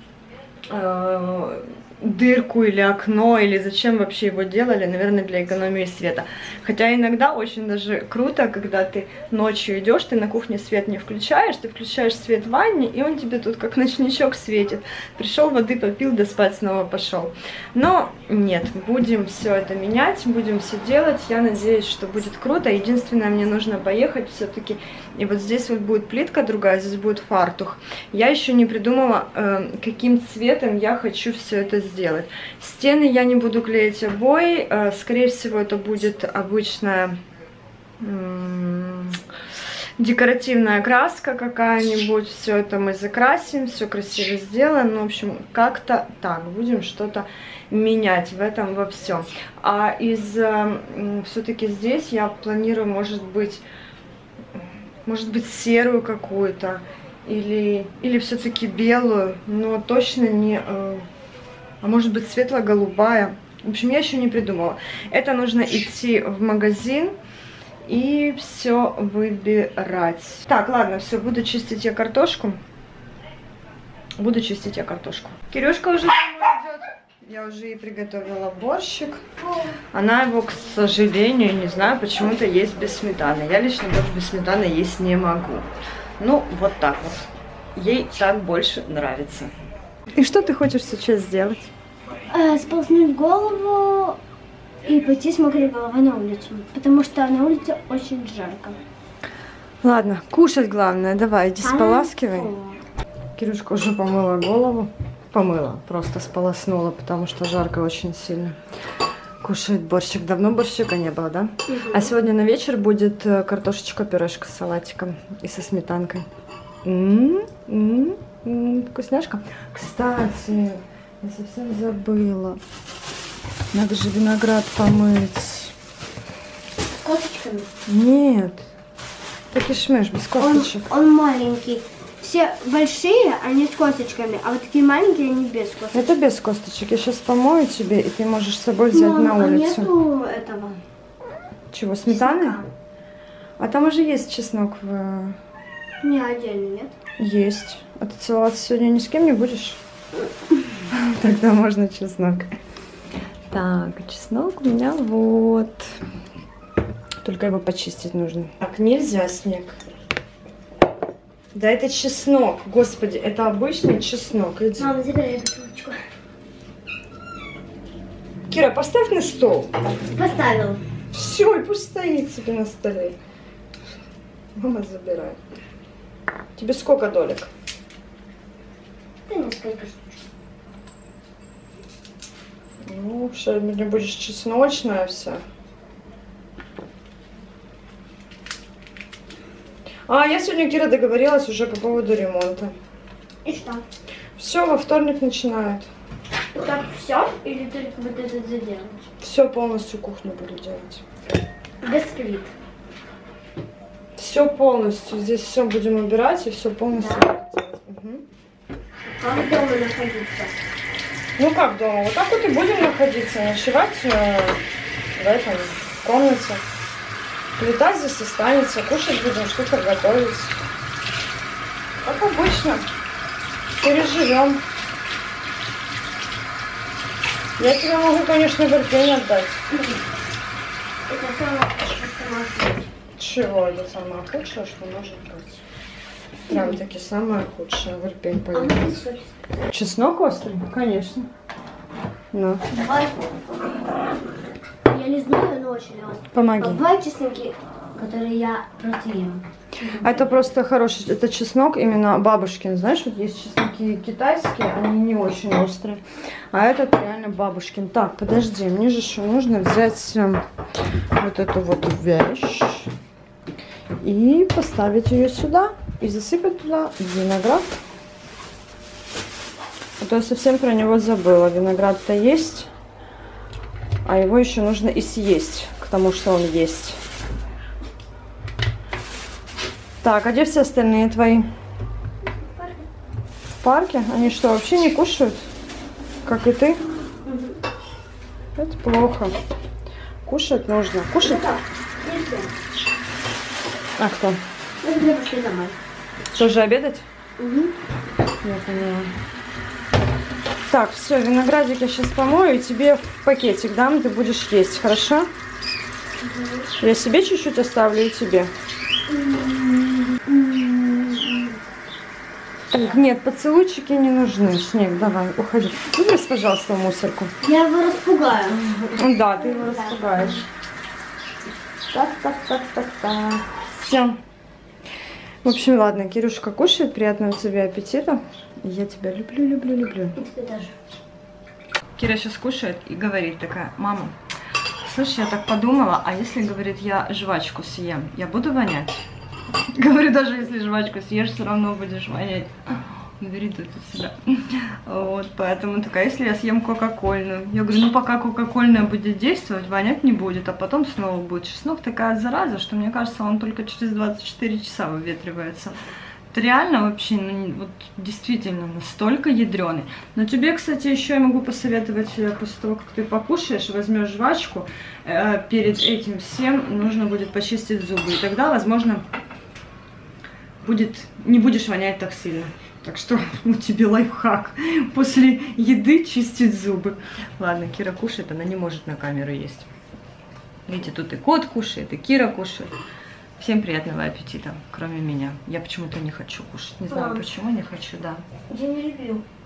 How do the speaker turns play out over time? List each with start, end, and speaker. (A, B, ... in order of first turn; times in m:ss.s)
0:00.7-0:37.2 A
0:38.0-0:39.2 A
0:40.0-0:53.6 A
0:55.0-1:01.1 A
1:01.8-1:07.1 A
1:07.8-1:12.6 A
1:14.2-1:19.4 A
1:19.9-1:25.7 A
1:26.2-1:29.5 A
1:30.2-1:31.7 A
1:32.3-1:34.2 B
1:34.8-1:38.8 B
1:39.8-1:42.5 A
1:41.6-1:42.8 B
1:43.4-1:48.6 A
1:49.4-1:56.3 A
1:51.7-1:52.1 B
1:56.8-2:02.6 A
2:03.7-2:05.7 A
2:06.9-2:07.7 B
2:07.9-2:08.7 A
2:09.5-2:10.8 A
2:10.4-2:16.2 B
2:15.9-2:19.9 A
2:18.9-2:20.8 B
2:21.7-2:22.6 A
2:22.1-2:22.7 B
2:23.6-2:25.4 A
2:26.0-2:26.9 B
2:27.2-2:29.8 A
2:30.9-2:32.5 A
2:33.5-2:35.9 A
2:37.2-2:39.8 A
2:41.5-2:44.9 A
2:44.8-2:46.0 B
2:48.5-2:49.7 A
2:50.1-2:50.8 B
2:51.1-2:53.2 A
2:54.6-2:55.4 A
2:56.6-2:57.5 A
2:59.3-3:00.2 B
3:02.8-3:05.4 A
3:10.1-3:12.7 A
3:13.4-3:13.8 B
3:14.4-3:15.9 A
3:16.5-3:19.0 B
3:19.2-3:21.0 A
3:21.8-3:22.5 B
3:24.2-3:28.2 A
3:26.9-3:27.3 B
3:29.1-3:30.6 B
3:31.4-3:34.6 A
3:35.2-3:36.6 A
3:37.6-3:40.6 A
3:42.0-3:42.8 A
3:43.8-3:44.6 A
3:47.6-3:49.6 A
3:51.1-3:52.9 B
3:53.2-3:55.6 A
3:56.5-3:59.0 A
3:56.5-3:56.8 B
3:58.5-3:59.3 B
3:59.7-4:01.3 A
4:02.3-4:02.6 A
4:02.7-4:03.3 B
4:04.9-4:10.3 B
4:06.3-4:06.8 A
4:10.0-4:16.0 A
4:16.5-4:20.4 A
4:21.2-4:22.9 A
4:24.0-4:27.8 A
4:30.0-4:32.7 A
4:34.0-4:37.0 A
4:40.0-4:41.5 A
4:42.2-4:42.8 B
4:43.6-4:45.4 A
4:46.2-4:46.8 A
4:47.2-4:47.6 B
4:48.6-4:49.4 A
4:50.2-4:51.4 A
4:51.2-4:52.5 B
4:54.0-4:54.4 A
4:54.8-4:55.8 B
4:56.3-4:57.0 A
4:57.4-4:57.7 B
4:58.4-4:59.1 A
5:00.7-5:05.3 A
5:06.2-5:06.7 B
5:06.8-5:08.5 A
5:09.1-5:11.4 B
5:12.7-5:17.3 A
5:17.4-5:20.4 B
5:19.0-5:20.4 A
5:21.9-5:23.0 B
5:22.3-5:24.2 A
5:25.4-5:30.2 A
5:30.2-5:30.7 B
5:32.0-5:34.1 A
5:34.8-5:39.0 A
5:39.7-5:55.8 A
5:56.3-6:09.0 A
6:10.6-6:19.7 A
6:20.7-6:22.7 A
6:23.4-6:28.2 A
6:26.9-6:27.2 B
6:28.5-6:29.2 B